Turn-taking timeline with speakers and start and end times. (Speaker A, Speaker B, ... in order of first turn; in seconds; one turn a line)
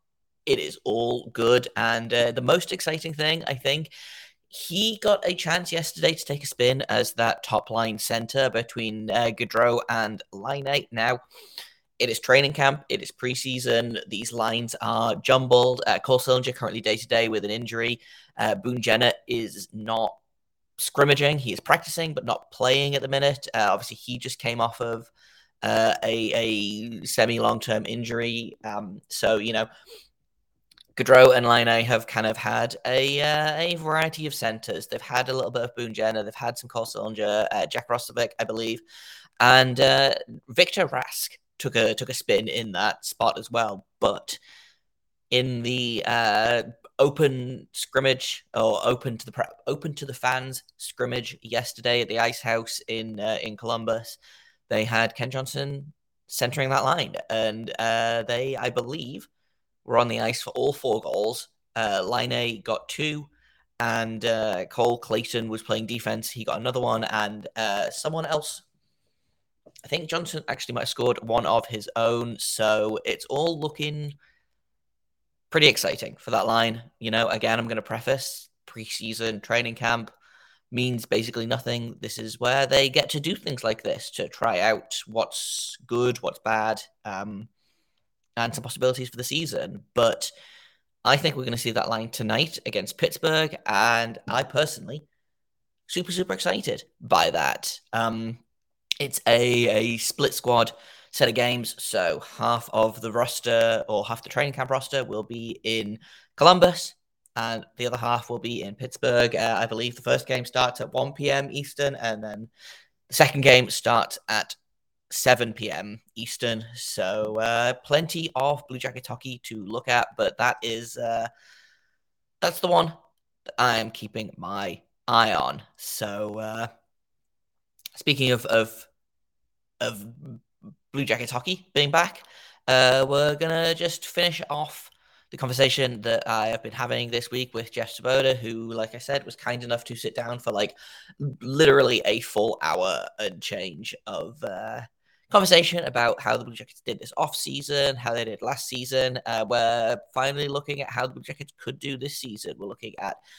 Speaker A: 0.5-3.9
Speaker A: 4.5-11.2
Speaker A: 12.0-20.2
Speaker A: 20.8-25.1
Speaker A: 25.6-29.7
Speaker A: 30.9-38.8
Speaker A: 39.4-44.4
Speaker A: 45.3-59.3
Speaker A: 59.8-68.6
Speaker A: 69.8-74.1
Speaker A: 75.5-80.1
Speaker A: 80.7-87.5
Speaker A: 88.4-90.3
Speaker A: 91.0-95.0
Speaker A: 95.9-98.4
Speaker A: 99.0-112.5
Speaker A: 113.1-114.6
Speaker A: 115.1-121.3
Speaker A: 122.4-123.0
Speaker A: 123.6-126.7
Speaker A: 127.9-128.9
Speaker A: 129.8-153.2